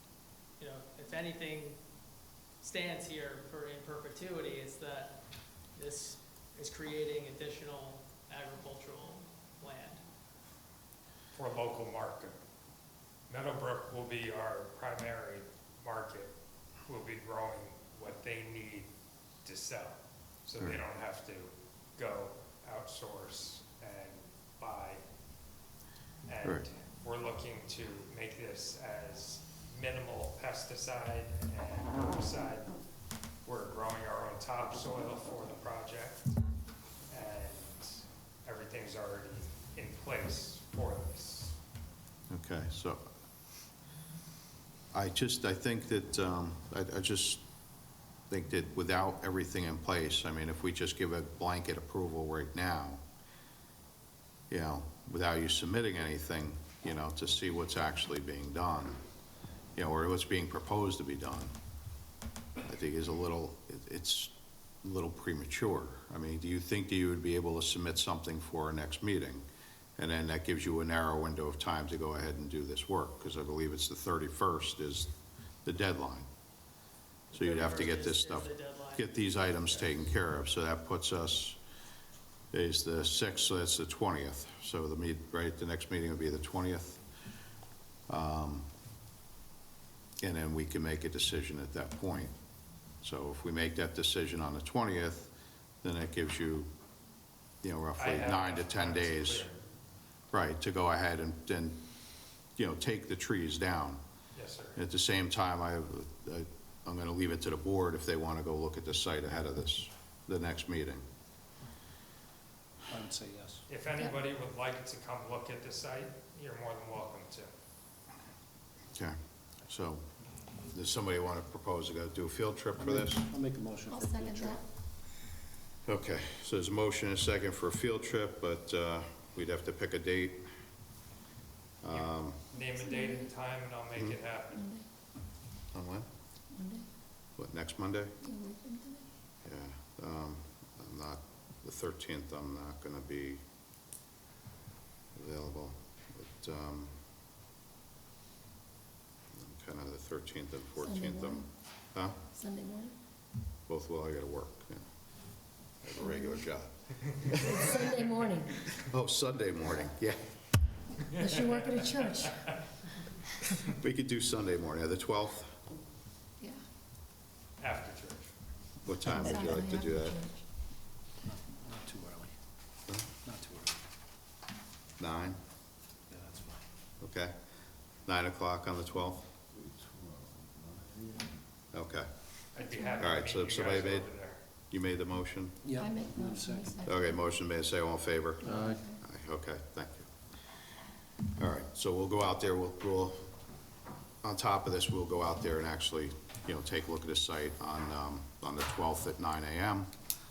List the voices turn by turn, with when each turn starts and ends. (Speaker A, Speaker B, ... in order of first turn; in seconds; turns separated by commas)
Speaker A: 0.6-1.8, Speaker A: 2.6-10.0, Speaker B: 11.3-12.3, Speaker B: 13.3-16.3, Speaker B: 16.8-18.9, Speaker B: 19.4-25.0, Speaker B: 26.2-32.7, Speaker B: 33.4-36.4, Speaker B: 37.1-41.5, Speaker C: 42.3-43.0, Speaker C: 44.9-47.4, Speaker C: 48.3-53.0, Speaker C: 54.5-59.0, Speaker C: 59.8-61.5, Speaker C: 62.6-69.4, Speaker C: 70.0-75.1, Speaker C: 75.6-76.3, Speaker A: 77.3-79.9, Speaker C: 77.3-81.6, Speaker C: 82.5-87.0, Speaker C: 88.1-88.7, Speaker C: 90.2-92.3, Speaker C: 93.0-96.7, Speaker C: 97.6-99.5, Speaker B: 98.0-99.6, Speaker C: 100.3-101.8, Speaker C: 102.5-104.0, Speaker B: 104.3-104.8, Speaker C: 104.8-111.0, Speaker D: 112.9-113.6, Speaker B: 113.7-117.5, Speaker C: 118.9-120.1, Speaker C: 120.6-123.3, Speaker D: 122.8-124.6, Speaker E: 123.9-124.6, Speaker C: 125.8-130.4, Speaker C: 131.8-132.4, Speaker B: 131.9-134.7, Speaker E: 133.0-133.2, Speaker C: 135.7-136.1, Speaker E: 136.5-136.8, Speaker C: 137.4-138.1, Speaker E: 138.2-139.1, Speaker C: 139.4-143.4, Speaker C: 145.1-146.9, Speaker C: 149.3-152.2, Speaker E: 150.8-151.4, Speaker E: 152.3-152.9, Speaker C: 153.7-154.8, Speaker C: 155.8-160.3, Speaker E: 157.4-158.5, Speaker B: 161.2-162.5, Speaker E: 161.2-162.3, Speaker C: 163.7-165.6, Speaker B: 167.6-168.3, Speaker C: 168.8-170.3, Speaker E: 169.1-170.3, Speaker D: 171.2-172.3, Speaker D: 173.2-173.8, Speaker C: 175.0-175.4, Speaker D: 176.1-176.6, Speaker C: 177.0-177.3, Speaker C: 178.1-179.3, Speaker C: 181.7-182.1, Speaker B: 182.5-184.4, Speaker C: 182.9-184.1, Speaker C: 184.7-185.7, Speaker D: 185.6-186.8, Speaker E: 185.8-187.1, Speaker C: 186.8-190.1, Speaker D: 188.4-188.8, Speaker E: 188.6-188.9, Speaker C: 191.4-193.2, Speaker C: 194.2-199.9